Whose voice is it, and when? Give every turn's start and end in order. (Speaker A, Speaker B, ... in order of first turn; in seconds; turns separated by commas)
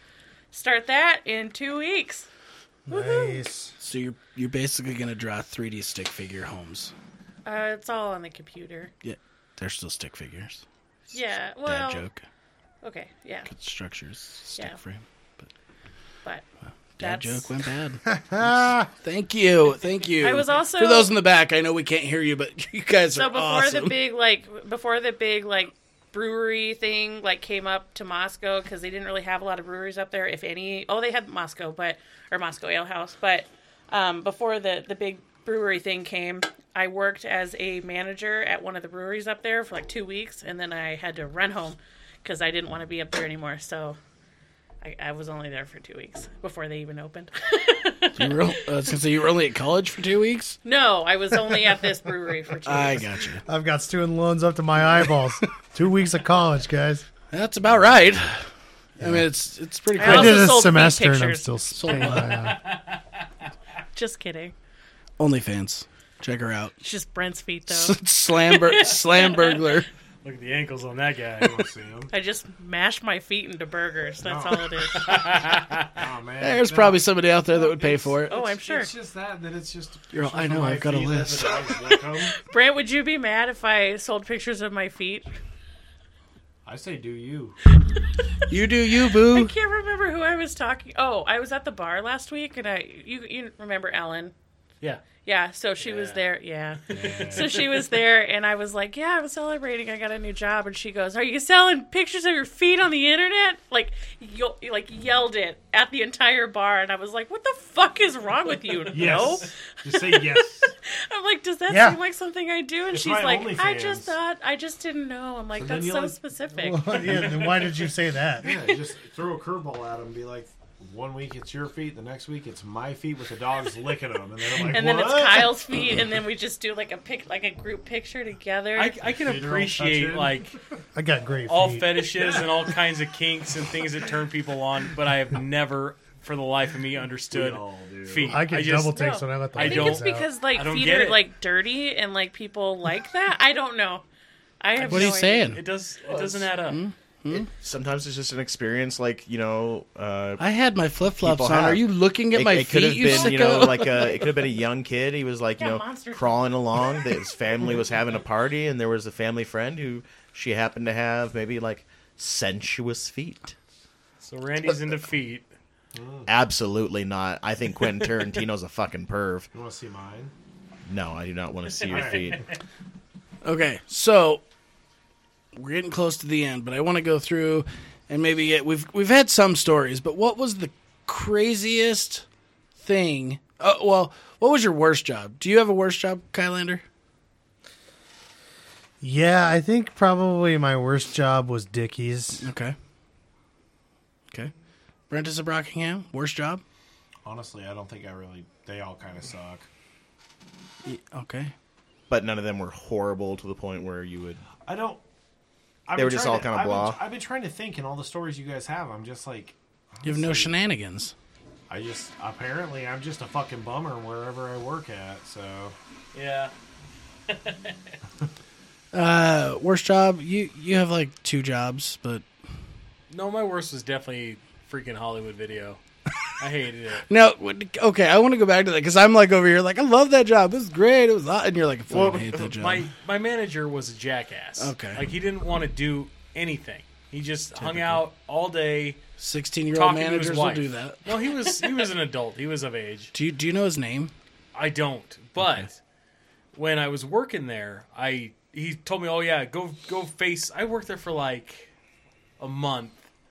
Speaker A: 0.5-2.3, Speaker B: 2.9-3.7, Speaker A: 2.9-3.4, Speaker C: 3.8-6.9, Speaker A: 7.5-8.9, Speaker C: 9.0-10.6, Speaker A: 11.1-12.1, Speaker C: 11.6-12.2, Speaker A: 12.8-13.5, Speaker C: 13.5-15.5, Speaker C: 17.0-24.0, Speaker A: 17.0-17.5, Speaker B: 18.1-18.9, Speaker A: 20.2-21.1, Speaker A: 23.1-44.0, Speaker A: 44.8-49.0, Speaker C: 48.2-50.6, Speaker A: 50.6-53.1, Speaker C: 52.6-53.4, Speaker B: 53.5-57.1, Speaker C: 57.3-60.7, Speaker B: 59.0-59.3, Speaker A: 60.0-62.2, Speaker B: 60.0-62.6, Speaker C: 61.8-62.5, Speaker D: 62.4-63.0, Speaker A: 63.9-64.5, Speaker C: 65.2-66.7, Speaker A: 66.8-69.8, Speaker C: 67.7-69.9, Speaker D: 70.2-71.7, Speaker E: 71.4-72.1, Speaker A: 72.1-75.4, Speaker E: 74.2-74.9, Speaker D: 75.0-76.0, Speaker E: 75.9-82.4, Speaker C: 76.4-78.3, Speaker A: 78.3-78.9, Speaker C: 80.1-81.7, Speaker A: 82.3-85.3, Speaker E: 86.7-87.6, Speaker C: 88.5-89.5, Speaker A: 89.1-94.3, Speaker A: 95.2-117.3, Speaker D: 95.8-96.2, Speaker E: 96.9-97.6, Speaker D: 96.9-97.6, Speaker E: 108.9-110.7, Speaker B: 111.7-112.0, Speaker E: 112.9-114.2, Speaker E: 115.5-116.2, Speaker B: 116.6-118.5, Speaker E: 118.4-125.6, Speaker A: 124.6-129.0, Speaker D: 128.8-130.6, Speaker E: 129.1-130.5, Speaker B: 130.9-132.0, Speaker D: 131.5-141.2, Speaker E: 132.2-132.6, Speaker E: 137.3-138.4, Speaker B: 138.2-140.3, Speaker A: 138.9-144.0, Speaker A: 144.6-145.6, Speaker D: 144.8-146.8, Speaker C: 144.9-145.6, Speaker E: 146.0-146.5, Speaker C: 146.7-147.5, Speaker F: 147.5-150.4, Speaker C: 150.4-154.1, Speaker F: 151.1-163.6, Speaker A: 155.6-156.9, Speaker D: 164.2-165.5, Speaker E: 165.9-166.3, Speaker F: 166.3-169.5, Speaker E: 169.5-170.3, Speaker F: 170.9-172.5, Speaker D: 171.8-172.2, Speaker E: 171.9-172.4, Speaker C: 173.4-174.4, Speaker C: 175.5-182.2, Speaker C: 182.8-186.8, Speaker B: 189.0-192.5, Speaker C: 192.4-192.8, Speaker C: 195.1-196.6, Speaker E: 197.2-199.7, Speaker C: 200.8-201.5, Speaker F: 202.1-204.4, Speaker E: 204.6-205.0, Speaker E: 205.9-210.5, Speaker F: 206.0-207.0, Speaker C: 210.0-211.1, Speaker E: 211.7-215.8, Speaker D: 216.1-216.5, Speaker D: 217.3-217.9, Speaker C: 218.9-222.2, Speaker D: 223.1-225.8, Speaker D: 226.4-227.1, Speaker C: 227.1-232.9, Speaker F: 231.9-232.6, Speaker D: 232.6-239.0, Speaker C: 234.6-235.1, Speaker C: 237.6-238.0, Speaker C: 239.2-241.0, Speaker D: 239.7-243.1, Speaker C: 243.1-244.1, Speaker D: 244.5-245.8, Speaker C: 245.4-245.7, Speaker D: 246.5-251.7, Speaker D: 252.4-253.0